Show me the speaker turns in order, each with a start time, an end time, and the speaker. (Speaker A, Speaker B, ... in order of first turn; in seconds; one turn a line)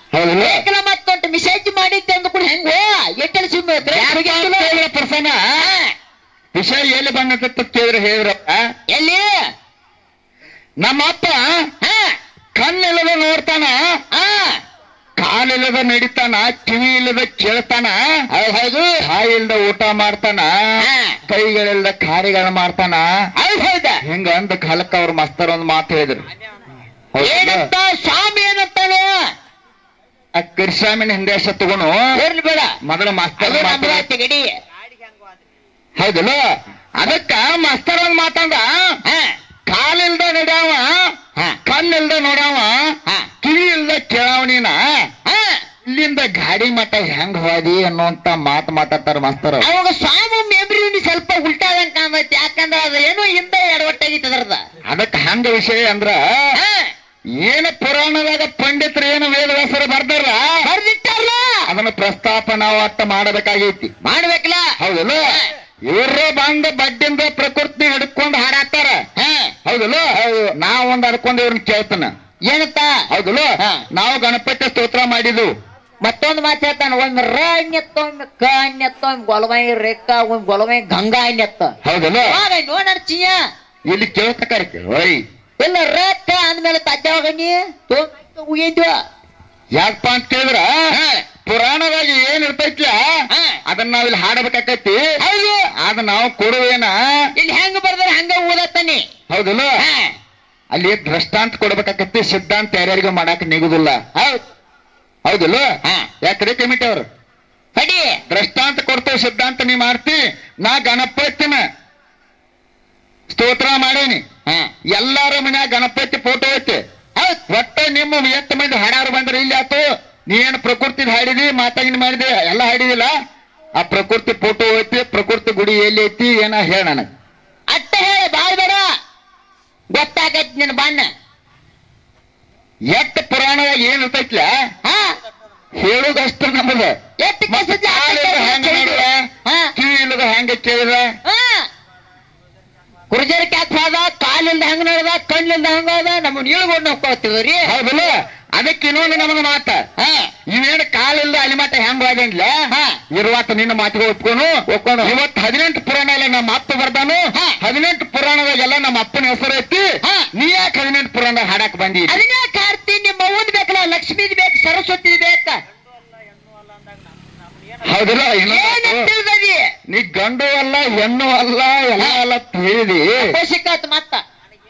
Speaker A: 0.1-0.6
Speaker B: 0.4-4.7
Speaker A: 3.9-5.4
Speaker B: 5.6-5.9
Speaker A: 6.5-8.6
Speaker B: 8.9-9.3
Speaker A: 10.8-11.5
Speaker B: 11.8-12.2
Speaker A: 12.6-13.8
Speaker B: 14.1-14.6
Speaker A: 15.2-18.0
Speaker B: 18.3-19.0
Speaker A: 19.0-20.5
Speaker B: 20.8-21.2
Speaker A: 21.3-23.1
Speaker B: 23.4-24.0
Speaker A: 24.1-26.2
Speaker A: 27.1-27.7
Speaker B: 27.2-29.2
Speaker A: 30.4-32.0
Speaker B: 32.2-32.8
Speaker A: 32.9-34.0
Speaker B: 33.4-34.5
Speaker A: 36.0-36.4
Speaker A: 37.0-38.7
Speaker B: 39.1-39.3
Speaker A: 39.7-41.0
Speaker A: 41.7-42.7
Speaker A: 43.4-44.8
Speaker B: 45.3-45.6
Speaker A: 45.9-49.7
Speaker B: 49.6-54.6
Speaker A: 54.9-56.2
Speaker B: 56.6-56.9
Speaker A: 57.4-60.4
Speaker B: 60.7-61.6
Speaker A: 61.7-63.9
Speaker B: 64.0-64.7
Speaker A: 64.8-65.2
Speaker A: 65.9-69.0
Speaker B: 69.2-69.5
Speaker A: 69.7-72.1
Speaker B: 72.5-73.0
Speaker A: 73.1-75.5
Speaker B: 76.0-81.7
Speaker A: 81.8-82.4
Speaker B: 82.2-83.4
Speaker A: 83.9-85.2
Speaker B: 85.6-89.0
Speaker A: 89.8-90.7
Speaker B: 90.9-91.2
Speaker A: 91.5-93.0
Speaker B: 93.3-93.6
Speaker A: 93.7-95.0
Speaker B: 95.2-95.7
Speaker A: 95.8-96.9
Speaker B: 97.4-99.0
Speaker A: 99.3-99.7
Speaker B: 99.8-100.1
Speaker A: 100.7-104.0
Speaker B: 104.2-104.4
Speaker A: 105.2-105.7
Speaker A: 106.2-107.0
Speaker B: 107.8-108.2
Speaker A: 108.3-111.6
Speaker A: 113.3-114.2
Speaker A: 114.9-116.8
Speaker A: 117.5-123.1
Speaker A: 123.8-127.1
Speaker B: 127.7-128.8
Speaker B: 129.9-131.1
Speaker A: 132.9-134.5
Speaker B: 134.8-135.1
Speaker A: 135.8-136.9
Speaker B: 137.2-139.7
Speaker A: 137.5-139.1
Speaker A: 139.8-141.1
Speaker B: 141.2-141.7
Speaker B: 143.1-147.7
Speaker A: 147.7-149.8
Speaker B: 150.0-150.3
Speaker A: 150.5-152.5
Speaker B: 152.7-153.0
Speaker A: 153.1-162.2
Speaker B: 154.7-155.1
Speaker B: 157.3-157.6
Speaker B: 160.0-160.3
Speaker B: 162.1-165.6
Speaker A: 167.8-169.1
Speaker B: 168.5-169.7
Speaker A: 169.9-173.2
Speaker B: 173.2-174.2